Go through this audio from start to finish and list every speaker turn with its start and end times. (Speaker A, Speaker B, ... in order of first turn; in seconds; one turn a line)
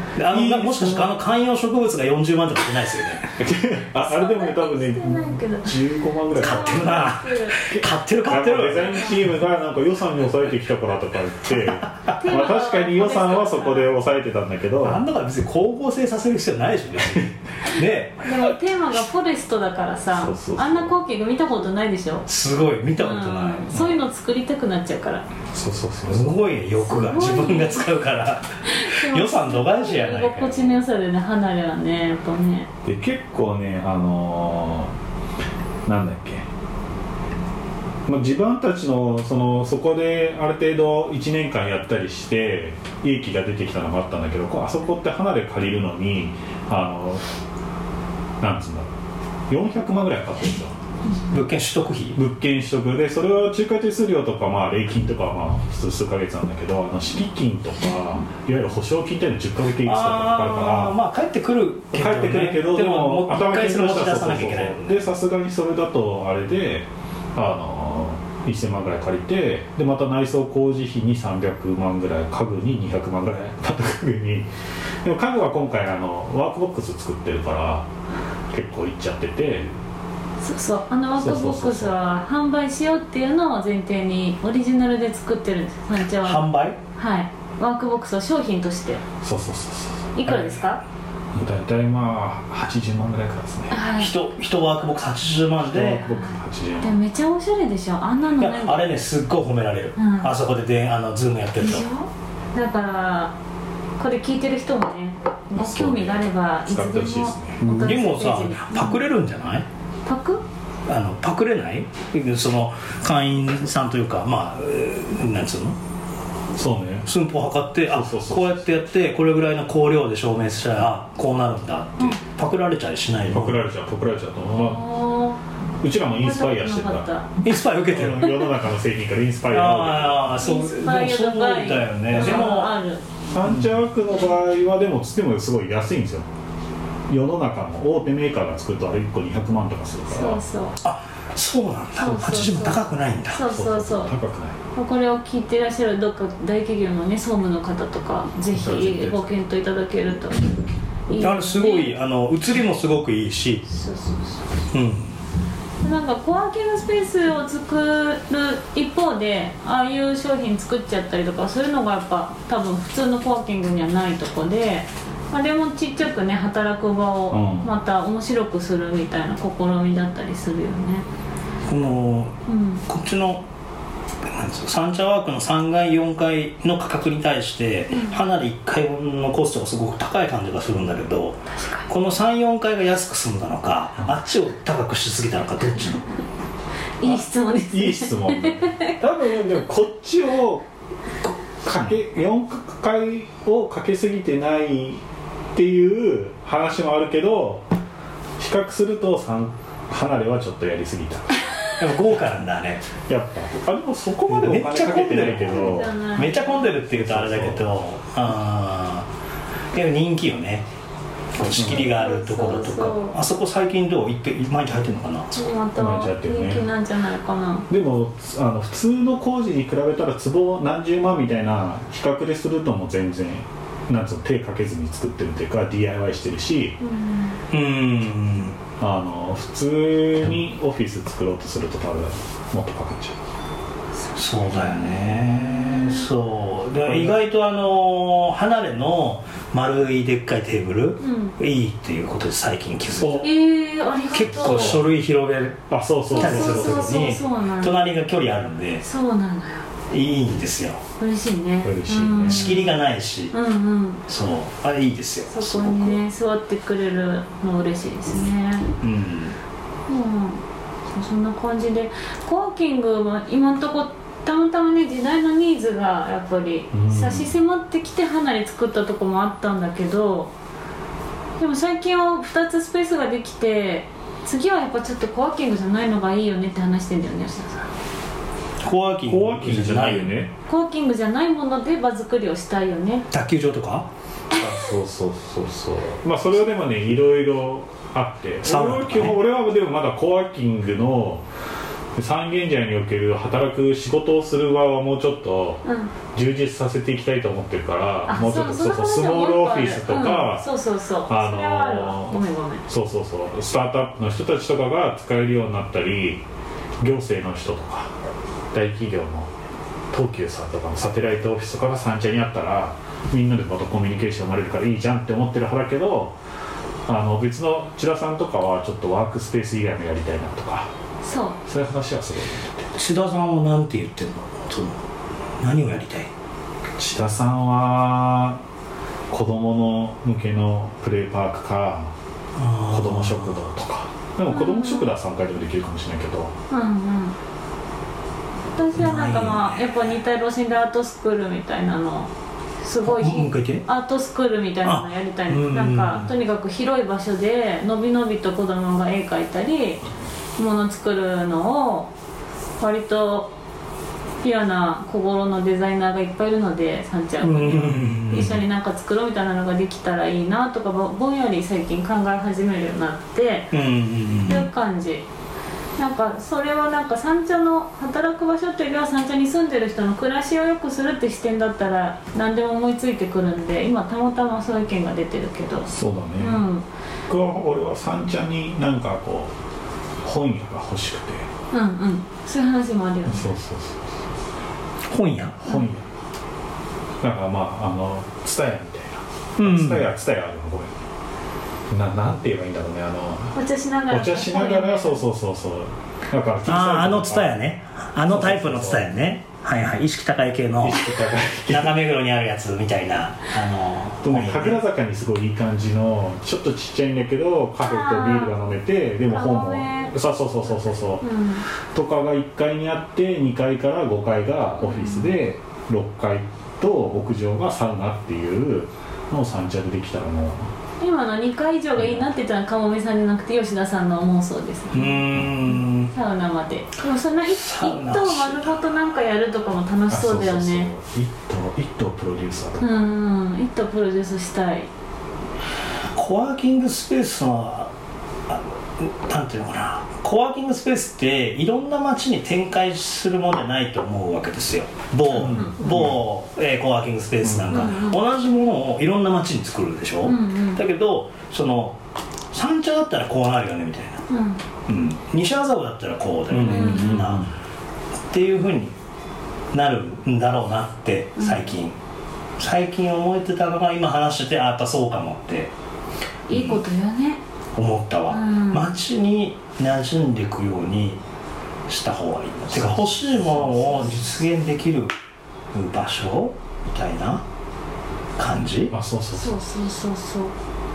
Speaker A: 0.1-3.3
Speaker B: 0.3-1.2
Speaker B: 3.4-7.0
Speaker C: 4.0-7.7
Speaker A: 6.3-9.2
Speaker B: 7.7-15.0
Speaker C: 8.8-9.2
Speaker C: 12.1-13.9
Speaker A: 14.8-18.2
Speaker C: 18.2-22.3
Speaker B: 20.1-20.9
Speaker A: 22.3-23.7
Speaker C: 22.9-25.2
Speaker B: 23.7-24.0
Speaker B: 25.5-26.4
Speaker A: 26.1-30.8
Speaker C: 26.8-27.9
Speaker C: 28.6-32.7
Speaker B: 32.8-34.9
Speaker B: 35.9-36.5
Speaker B: 38.0-47.2
Speaker B: 48.4-48.9
Speaker B: 49.5-50.8
Speaker A: 51.3-52.2
Speaker B: 52.1-61.0
Speaker A: 59.8-65.1
Speaker B: 61.9-74.5
Speaker B: 75.0-77.9
Speaker B: 78.5-79.8
Speaker C: 80.4-89.0
Speaker B: 81.2-81.9
Speaker A: 86.2-86.8
Speaker B: 89.2-90.6
Speaker C: 90.1-90.8
Speaker B: 91.3-93.8
Speaker C: 93.7-94.1
Speaker A: 94.0-96.0
Speaker B: 95.6-97.0
Speaker C: 96.0-98.8
Speaker A: 98.4-101.9
Speaker C: 100.0-100.3
Speaker C: 101.6-103.3
Speaker C: 104.0-109.1
Speaker B: 105.6-107.6
Speaker A: 107.6-109.7
Speaker C: 110.0-110.4
Speaker A: 110.8-115.8
Speaker B: 116.5-117.1
Speaker A: 117.0-123.6
Speaker B: 117.8-118.7
Speaker B: 123.2-124.8
Speaker C: 124.5-125.4
Speaker B: 125.8-127.1
Speaker C: 126.1-127.4
Speaker A: 127.4-128.5
Speaker B: 127.9-130.4
Speaker A: 129.5-132.8
Speaker C: 130.4-133.0
Speaker B: 132.1-132.5
Speaker B: 133.3-136.3
Speaker B: 137.1-140.4
Speaker C: 140.1-140.8
Speaker A: 140.8-143.4
Speaker C: 142.0-144.1
Speaker B: 143.4-144.6
Speaker C: 144.7-151.9
Speaker B: 148.5-149.4
Speaker A: 151.1-153.7
Speaker C: 153.7-154.6
Speaker A: 154.7-155.2
Speaker C: 155.8-171.1
Speaker B: 167.3-167.7
Speaker A: 171.7-173.4
Speaker C: 172.5-172.8
Speaker A: 174.2-186.0
Speaker C: 177.9-178.2
Speaker C: 181.6-181.9
Speaker C: 187.0-189.0
Speaker B: 187.0-190.7
Speaker B: 191.6-195.0
Speaker B: 195.5-197.7
Speaker B: 198.4-201.4
Speaker A: 201.8-202.8
Speaker B: 203.1-205.9
Speaker A: 204.3-209.1
Speaker C: 205.4-206.7
Speaker B: 206.9-207.7
Speaker A: 209.7-210.6
Speaker A: 211.3-215.3
Speaker B: 211.5-211.9
Speaker C: 211.6-213.2
Speaker C: 215.3-217.7
Speaker B: 215.8-216.7
Speaker B: 217.7-226.8
Speaker C: 226.8-227.4
Speaker A: 227.5-228.6
Speaker B: 228.8-233.2
Speaker A: 234.1-243.3
Speaker C: 234.5-236.1
Speaker B: 236.8-237.2
Speaker C: 241.0-241.3
Speaker B: 243.0-243.3
Speaker C: 243.2-244.8
Speaker A: 244.1-248.8
Speaker B: 244.2-244.8
Speaker B: 245.7-247.1
Speaker C: 246.1-247.8
Speaker C: 248.8-249.7
Speaker A: 249.9-250.8
Speaker C: 251.0-252.8
Speaker B: 251.6-252.5
Speaker A: 252.2-253.3
Speaker C: 253.3-254.0
Speaker A: 254.1-256.0
Speaker C: 255.3-258.7
Speaker A: 258.8-259.4
Speaker C: 259.9-270.3
Speaker B: 266.7-267.3
Speaker C: 271.4-277.7
Speaker A: 278.6-280.1
Speaker B: 279.0-280.3
Speaker C: 280.4-283.1
Speaker A: 283.1-283.9
Speaker B: 284.3-291.2
Speaker A: 288.4-289.2
Speaker B: 291.9-295.6
Speaker C: 295.6-295.9
Speaker B: 296.1-300.5
Speaker C: 298.1-302.6
Speaker B: 301.1-306.2
Speaker B: 306.8-307.9
Speaker B: 308.5-309.3
Speaker B: 309.9-316.1
Speaker B: 316.9-320.7
Speaker C: 321.0-321.4
Speaker B: 321.4-322.7
Speaker A: 322.7-324.8
Speaker A: 325.4-326.1
Speaker B: 326.8-328.4
Speaker B: 329.1-331.9
Speaker A: 332.4-333.5
Speaker B: 332.7-336.3
Speaker C: 334.3-334.9
Speaker C: 336.5-337.1
Speaker C: 338.6-349.8
Speaker A: 338.7-339.9
Speaker A: 342.8-343.6
Speaker A: 344.6-346.1
Speaker C: 350.4-351.9
Speaker C: 352.6-353.3
Speaker C: 354.2-363.5
Speaker A: 357.2-358.4
Speaker A: 363.5-364.4
Speaker C: 364.2-365.1
Speaker C: 365.8-376.6
Speaker B: 375.7-376.4
Speaker B: 377.1-379.3
Speaker B: 380.0-381.3
Speaker C: 381.5-383.3
Speaker B: 383.1-383.9
Speaker A: 384.9-385.4
Speaker B: 385.4-385.9
Speaker B: 387.0-390.8
Speaker A: 389.4-389.9
Speaker B: 391.7-393.3
Speaker C: 393.3-395.0
Speaker B: 393.9-397.4
Speaker A: 396.4-400.9
Speaker B: 398.0-398.9
Speaker B: 400.6-401.8
Speaker A: 401.5-404.6
Speaker B: 404.0-411.0
Speaker C: 407.6-408.3
Speaker C: 409.1-409.9
Speaker C: 411.0-411.4
Speaker B: 411.7-420.5
Speaker C: 414.6-415.1
Speaker C: 420.8-425.1
Speaker B: 421.8-422.1
Speaker A: 424.7-425.9
Speaker C: 425.9-430.7
Speaker A: 427.3-428.7
Speaker B: 429.9-432.7
Speaker C: 432.6-434.7
Speaker A: 435.9-437.7
Speaker A: 438.3-451.8
Speaker B: 445.1-445.9
Speaker C: 445.2-445.6
Speaker B: 447.2-447.6
Speaker C: 447.5-448.0
Speaker C: 450.0-450.6
Speaker A: 452.3-454.0
Speaker C: 454.1-454.4
Speaker A: 454.7-457.3
Speaker B: 456.3-457.3
Speaker C: 456.4-457.2
Speaker A: 458.1-458.7
Speaker A: 459.5-461.8
Speaker C: 461.2-461.5
Speaker A: 462.4-465.5
Speaker C: 466.3-467.2
Speaker A: 466.3-466.6
Speaker A: 467.5-471.0
Speaker C: 468.1-468.7
Speaker A: 471.7-474.9
Speaker B: 472.5-474.0
Speaker A: 475.5-477.2
Speaker A: 478.2-478.7
Speaker B: 478.7-479.4
Speaker C: 479.1-480.3